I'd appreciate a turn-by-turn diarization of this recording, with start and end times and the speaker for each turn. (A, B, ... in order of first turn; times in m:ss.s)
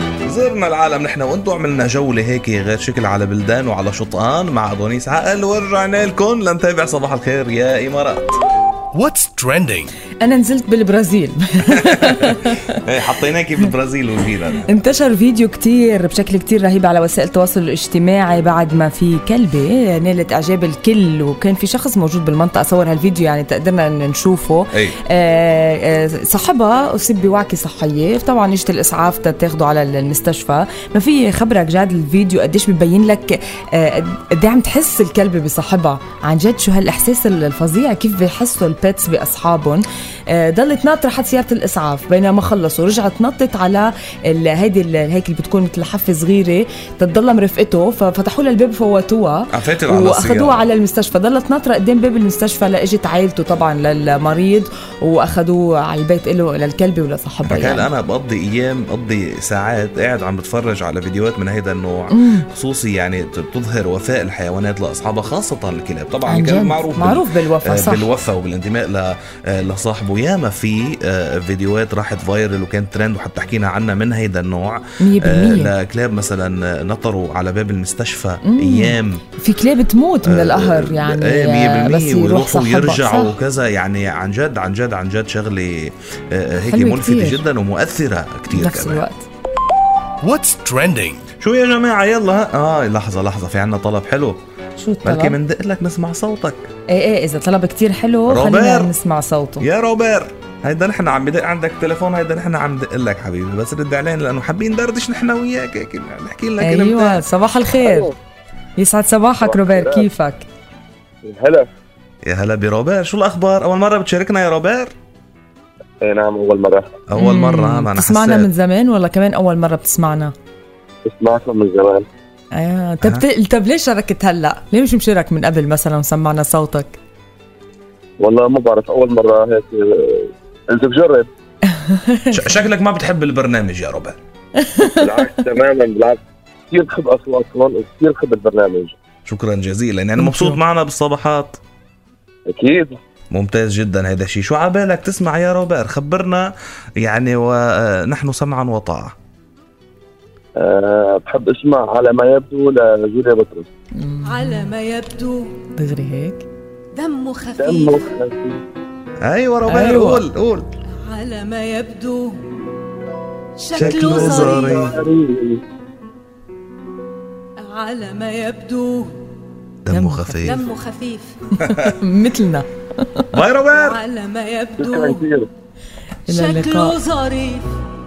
0:00.3-0:08.4 A
0:08.9-0:09.9 B
0:10.2-0:12.8 C
0:11.9-0:12.3 A
0:12.8-0:14.8 A
0:14.7-0:57.9 C
0:49.5-0:50.7 A
0:57.4-1:19.2 A
1:02.1-1:02.5 C
1:06.3-1:08.1 C
1:15.0-1:15.7 C
1:18.4-1:23.4 C
1:20.2-1:29.0 A
1:26.7-1:27.4 C
1:28.5-1:29.3 C
1:30.2-1:31.3 B
1:31.4-1:34.4 A
1:34.8-1:35.4 C
1:35.0-1:36.7 A
1:36.9-1:39.7 C
1:38.3-1:38.9 A
1:39.6-1:47.2 A
1:46.6-1:48.1 C
1:47.8-1:48.1 D
1:48.8-1:50.5 C
1:49.4-1:50.1 D
1:51.2-1:51.7 D
1:52.2-1:54.9 A
1:56.0-1:57.0 D
1:57.1-1:58.5 A
1:57.2-2:00.3 C
2:01.0-2:02.1 D
2:02.5-2:07.0 C
2:08.2-2:11.3 D
2:11.8-2:12.4 C
2:12.3-2:14.2 A
2:14.6-2:15.0 C
2:15.0-2:19.0 D
2:19.3-2:21.6 A
2:20.2-2:20.6 C
2:22.5-2:23.0 D
2:23.3-2:29.2 A
2:30.6-2:33.7 D
2:34.0-2:34.7 C
2:34.2-2:35.6 E
2:35.8-2:36.4 C
2:36.9-2:38.1 E
2:37.6-2:38.6 D
2:39.2-2:40.7 A
2:39.7-2:40.2 C
2:41.0-2:42.5 E
2:43.6-2:44.9 E
2:43.8-2:45.0 A
2:43.8-2:45.6 D
2:47.6-2:49.2 E
2:49.8-2:50.6 A
2:49.9-2:50.4 C
2:50.4-2:51.4 E
2:51.6-2:53.4 C
2:53.3-2:54.0 A
2:53.7-2:55.2 E
2:54.8-2:55.5 D
2:56.3-2:57.0 C
2:56.3-2:57.8 E